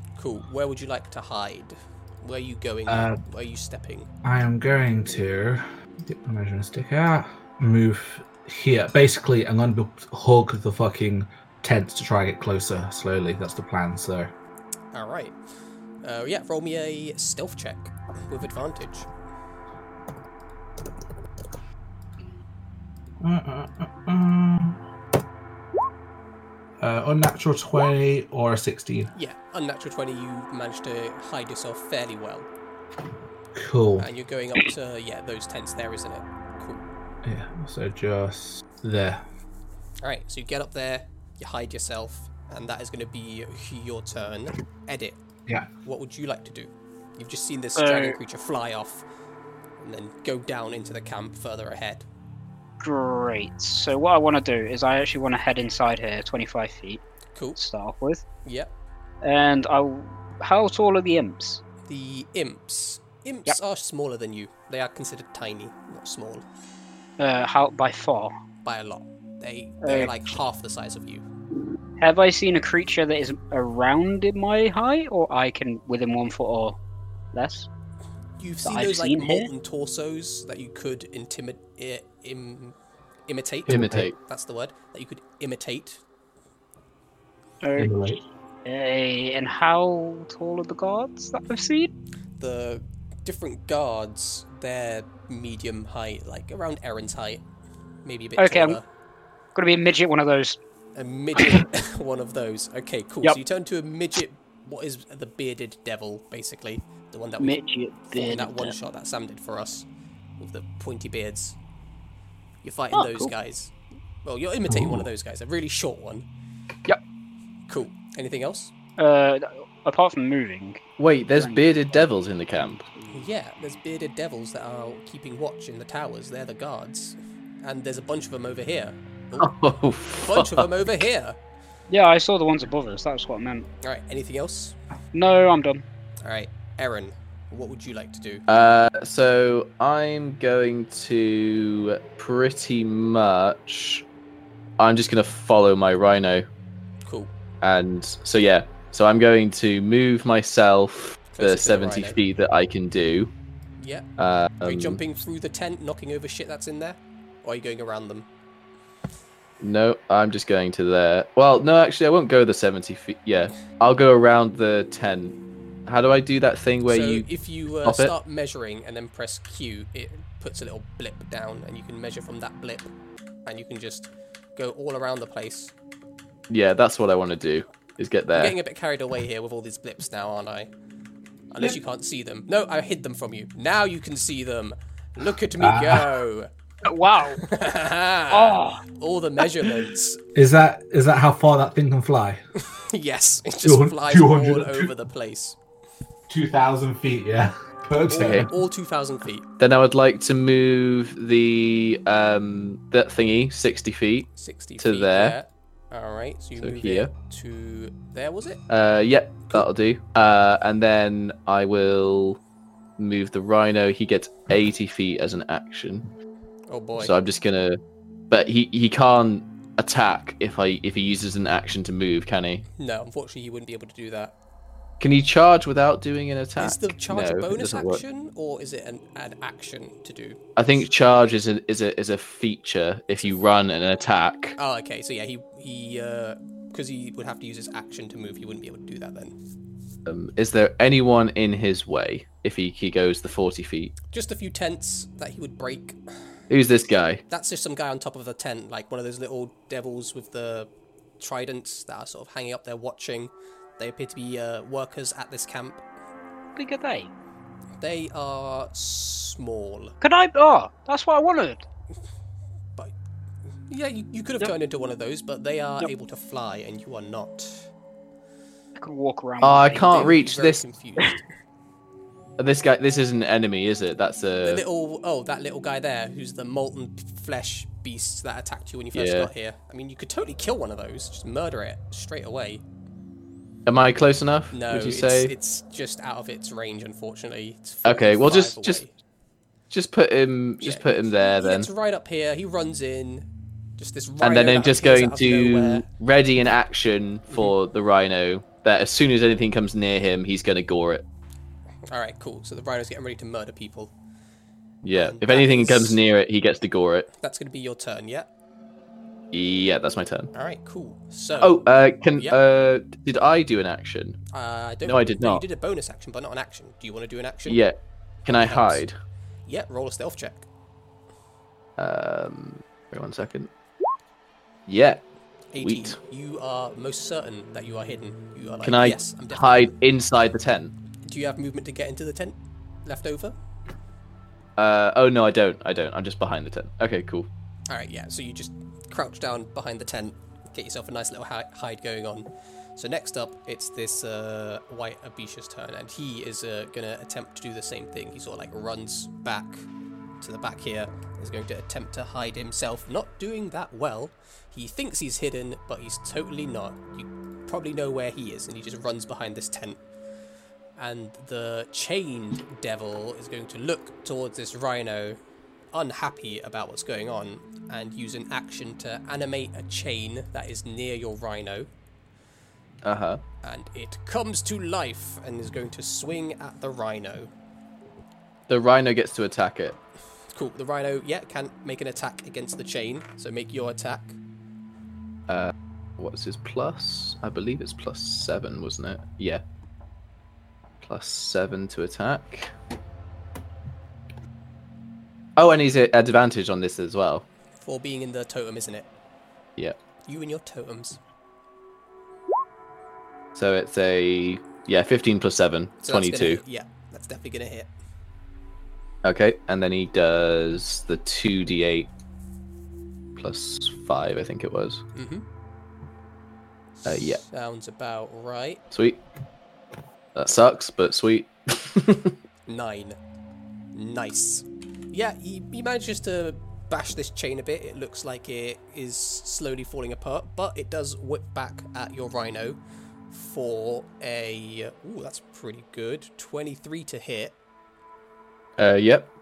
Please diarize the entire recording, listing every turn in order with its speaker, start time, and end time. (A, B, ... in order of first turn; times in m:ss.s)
0:00.2-0:04.1 A
0:02.9-0:03.2 B
0:04.2-0:14.3 B
0:14.9-0:15.4 A
0:16.0-0:19.1 A
0:23.2-0:24.8 B
0:26.8-0:29.1 B
0:29.1-0:32.5 A
0:33.6-0:34.1 B
0:34.0-0:36.8 A
0:37.2-0:39.2 B
0:40.0-0:45.2 A
0:45.8-0:49.0 A
0:47.8-0:48.2 C
0:49.8-0:52.0 A
0:52.8-0:57.0 C
0:57.3-0:57.6 A
0:57.6-0:58.2 C
0:58.4-0:58.7 A
0:59.2-1:01.6 C
1:01.9-1:06.5 A
1:07.2-1:08.3 C
1:08.6-1:11.2 A
1:09.8-1:10.2 C
1:12.0-1:16.8 C
1:17.3-1:17.7 C
1:18.4-1:22.8 A
1:18.6-1:19.5 C
1:23.3-1:26.0 A
1:23.7-1:24.1 B
1:23.7-1:24.2 D
1:27.6-1:31.9 C
1:27.8-1:28.2 B
1:32.4-1:37.4 A
1:38.0-1:38.8 A
1:38.4-1:38.8 C
1:39.6-1:40.6 C
1:41.0-1:47.6 A
1:47.4-1:48.8 C
1:48.1-1:49.9 A
1:50.4-1:51.6 A
1:52.6-1:53.7 A
1:52.9-1:53.3 C
1:54.2-1:56.2 A
1:54.7-1:55.1 B
1:57.7-1:58.7 A
1:59.0-2:00.8 C
2:01.0-2:02.8 D
2:01.3-2:02.1 C
2:03.0-2:03.2 C
2:03.1-2:11.4 A
2:09.4-2:10.7 D
2:11.9-2:13.7 C
2:13.8-2:14.8 A
2:15.1-2:15.8 C
2:16.2-2:18.7 A
2:18.5-2:24.0 D
2:24.8-2:26.5 D
2:27.0-2:27.3 A
2:27.6-2:33.3 D
2:31.3-2:32.2 A
2:33.8-2:34.1 A
2:34.2-2:35.0 D
2:34.6-2:38.3 A
2:39.6-2:45.4 D
2:45.9-2:47.3 D
2:46.9-2:52.9 A
2:47.8-2:48.2 D
2:53.5-2:55.7 A
2:56.5-2:58.6 D
2:58.4-3:00.7 A
3:01.5-3:06.5 A
3:05.6-3:06.2 B
3:06.8-3:07.5 C
3:07.4-3:10.2 A
3:08.3-3:08.8 C
3:10.4-3:12.4 B
3:12.7-3:15.6 A
3:13.6-3:14.9 B
3:16.3-3:18.5 B
3:18.1-3:19.5 A
3:18.2-3:18.5 D
3:19.6-3:25.4 D
3:24.4-3:28.6 A
3:26.6-3:27.1 D
3:28.7-3:32.4 D
3:33.0-3:36.1 D
3:36.7-3:37.1 A
3:37.0-3:42.7 D
3:42.8-3:44.4 A
3:45.0-3:48.0 D
3:46.6-3:50.4 A
3:50.6-3:54.6 D
3:54.6-3:59.4 A
4:00.1-4:03.9 D
4:04.1-4:06.0 A
4:06.5-4:07.2 D
4:07.3-4:15.8 A
4:16.6-4:17.1 C
4:17.8-4:20.0 A
4:20.0-4:21.6 C
4:23.7-4:27.7 A
4:28.8-4:30.2 C
4:29.4-4:30.6 D
4:29.9-4:31.2 A
4:32.4-4:34.6 D
4:34.4-4:42.6 A
4:39.0-4:39.3 D
4:43.7-4:45.3 D
4:44.5-4:48.9 A
4:47.8-4:48.8 D
4:49.7-4:51.7 D
4:50.6-4:53.3 A
4:53.8-4:55.9 A
4:54.2-5:01.1 D
5:01.9-5:03.9 A
5:04.8-5:07.1 D
5:05.0-5:06.0 A
5:07.2-5:08.3 A
5:09.3-5:10.3 D
5:10.3-5:12.4 A
5:11.4-5:14.2 D
5:14.3-5:17.6 A
5:14.8-5:15.4 D
5:17.5-5:17.7 D
5:18.3-5:18.8 A
5:18.3-5:19.0 D
5:19.5-5:20.5 A
5:21.8-5:23.5 D
5:24.7-5:25.0 D
5:25.5-5:29.7 A
5:25.6-5:26.0 D
5:28.6-5:30.7 D
5:31.0-5:33.4 A
5:34.6-5:37.3 D
5:37.7-5:49.7 A
5:50.2-5:59.8 A
6:00.8-6:05.2 A
6:05.7-6:11.7 A
6:12.8-6:13.2 D
6:13.4-6:17.3 A
6:18.5-6:19.8 D
6:20.3-6:24.2 A
6:25.3-6:29.4 D
6:30.8-6:32.5 D
6:35.4-6:37.2 D
6:37.6-6:38.9 A
6:40.0-6:41.0 A
6:43.4-6:46.4 D
6:45.8-6:47.7 A
6:49.0-6:51.9 D
6:53.2-6:54.8 D
6:55.0-6:55.2 A
6:56.8-6:57.2 D
6:56.9-6:58.6 A
6:58.7-6:59.0 D
7:00.2-7:02.2 D
7:02.5-7:03.0 A
7:03.7-7:12.6 A
7:13.1-7:17.4 A
7:18.6-7:19.1 D